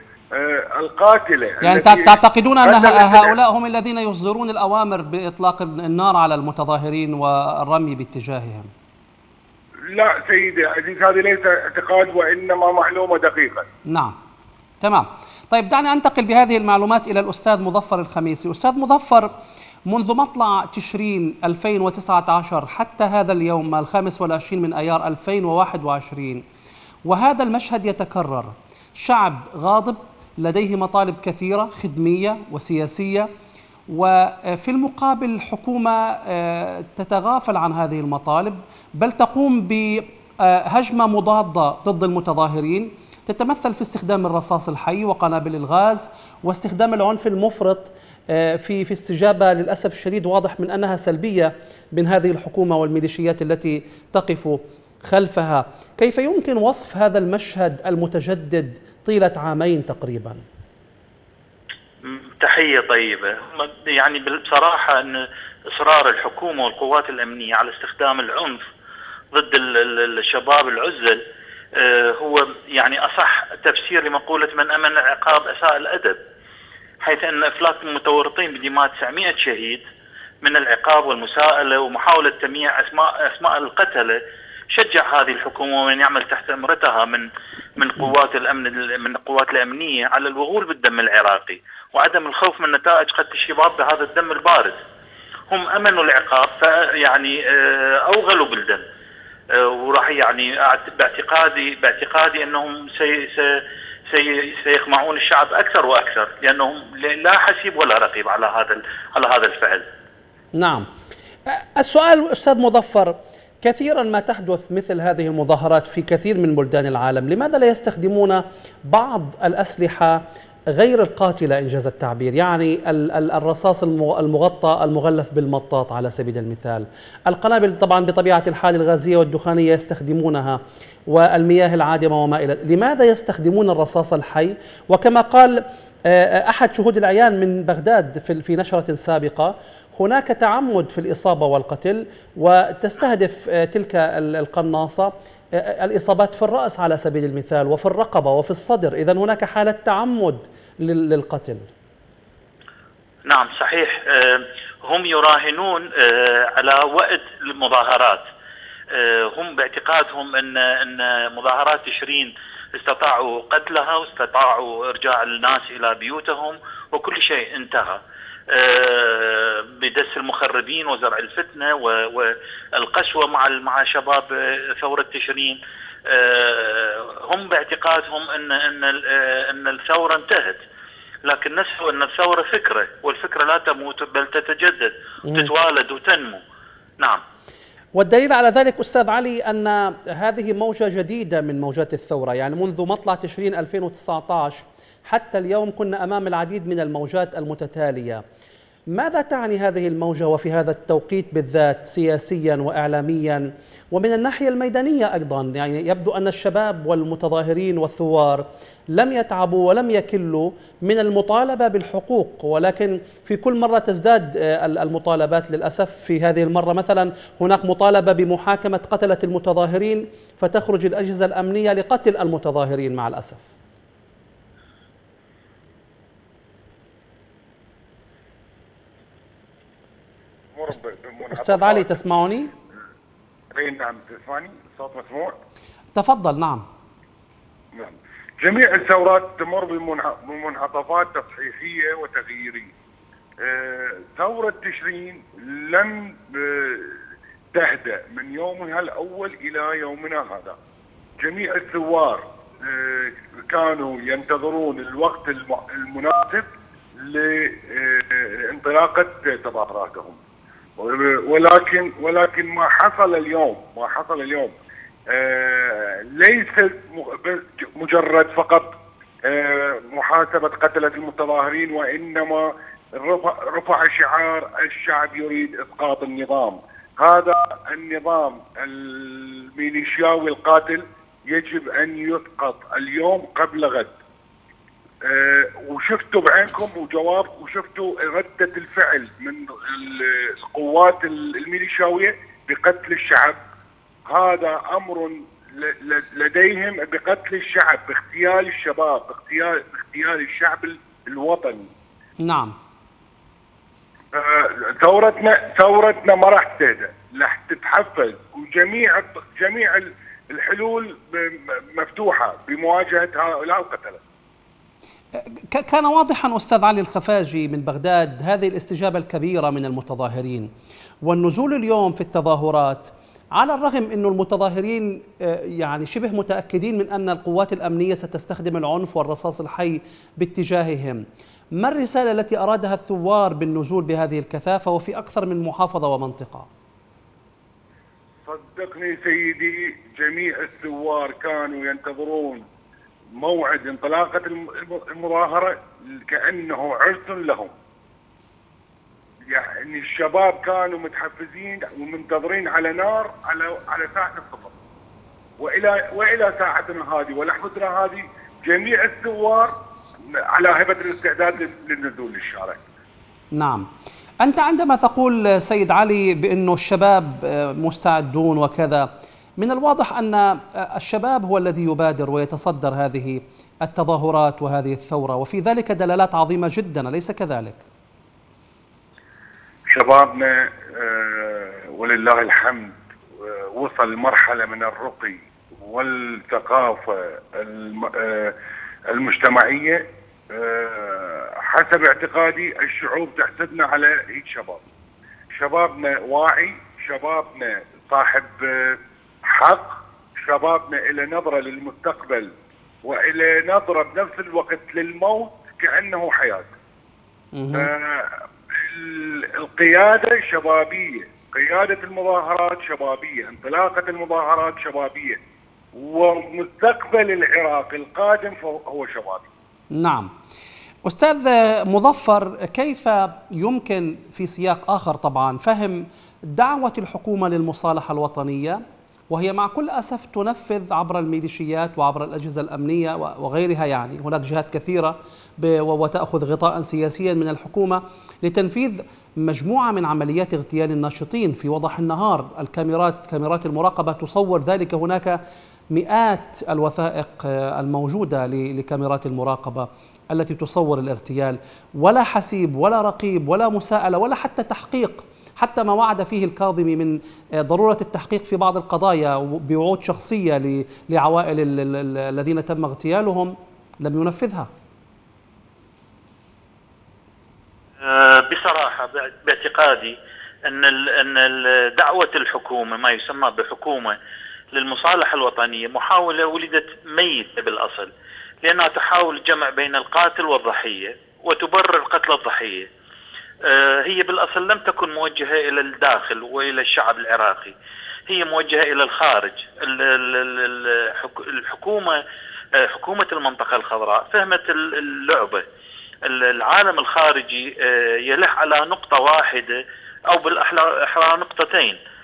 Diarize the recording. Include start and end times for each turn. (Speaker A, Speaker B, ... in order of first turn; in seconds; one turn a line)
Speaker A: 0.3-3.4
Speaker B: 1.6-8.7
Speaker A: 9.9-13.7
Speaker B: 13.9-14.1
Speaker B: 14.8-19.3
Speaker B: 19.9-26.4
Speaker B: 27.0-33.3
Speaker B: 33.9-60.4
Speaker C: 62.0-68.6
Speaker C: 69.3-71.2
Speaker C: 71.8-76.2
Speaker C: 77.0-79.8
Speaker C: 80.4-84.2
Speaker C: 84.7-87.2
Speaker C: 87.8-94.8
Speaker C: 95.5-98.8
Speaker C: 99.5-109.8
Speaker B: 110.5-110.8
Speaker B: 111.5-151.7
Speaker C: 153.2-158.2
Speaker C: 158.9-180.6
Speaker C: 181.2-186.4
Speaker B: 187.9-198.2
Speaker B: 198.9-223.4
Speaker A: 230.5-231.9
Speaker B: 231.3-232.5
Speaker A: 233.5-235.3
Speaker B: 235.9-236.6
Speaker A: 237.7-242.7
Speaker A: 243.4-247.0
Speaker A: 247.5-250.6
Speaker A: 251.2-260.2
Speaker A: 260.8-264.5
Speaker A: 265.1-283.9
Speaker A: 285.0-293.4
Speaker A: 294.1-301.7
Speaker B: 302.2-302.5
Speaker A: 304.1-314.0
Speaker B: 315.1-320.5
Speaker B: 321.0-331.0
Speaker B: 331.6-336.5
Speaker A: 338.2-342.4
Speaker A: 343.1-347.5
Speaker A: 349.3-354.6
Speaker A: 355.4-359.5
Speaker A: 360.1-362.6
Speaker B: 363.3-363.6
Speaker B: 364.2-368.9
Speaker B: 369.4-377.6
Speaker A: 379.7-388.3
Speaker A: 388.9-394.6
Speaker A: 395.3-402.3
Speaker A: 402.8-406.5
Speaker B: 407.3-407.7
Speaker A: 407.5-408.1
Speaker A: 408.6-415.2
Speaker A: 415.7-419.3
Speaker B: 419.7-420.1
Speaker B: 420.8-445.2
Speaker B: 445.7-464.5
Speaker C: 467.8-474.0
Speaker C: 474.5-477.9
Speaker C: 478.4-482.7
Speaker C: 483.4-487.6
Speaker C: 488.1-492.0
Speaker C: 492.6-495.4
Speaker C: 496.0-501.8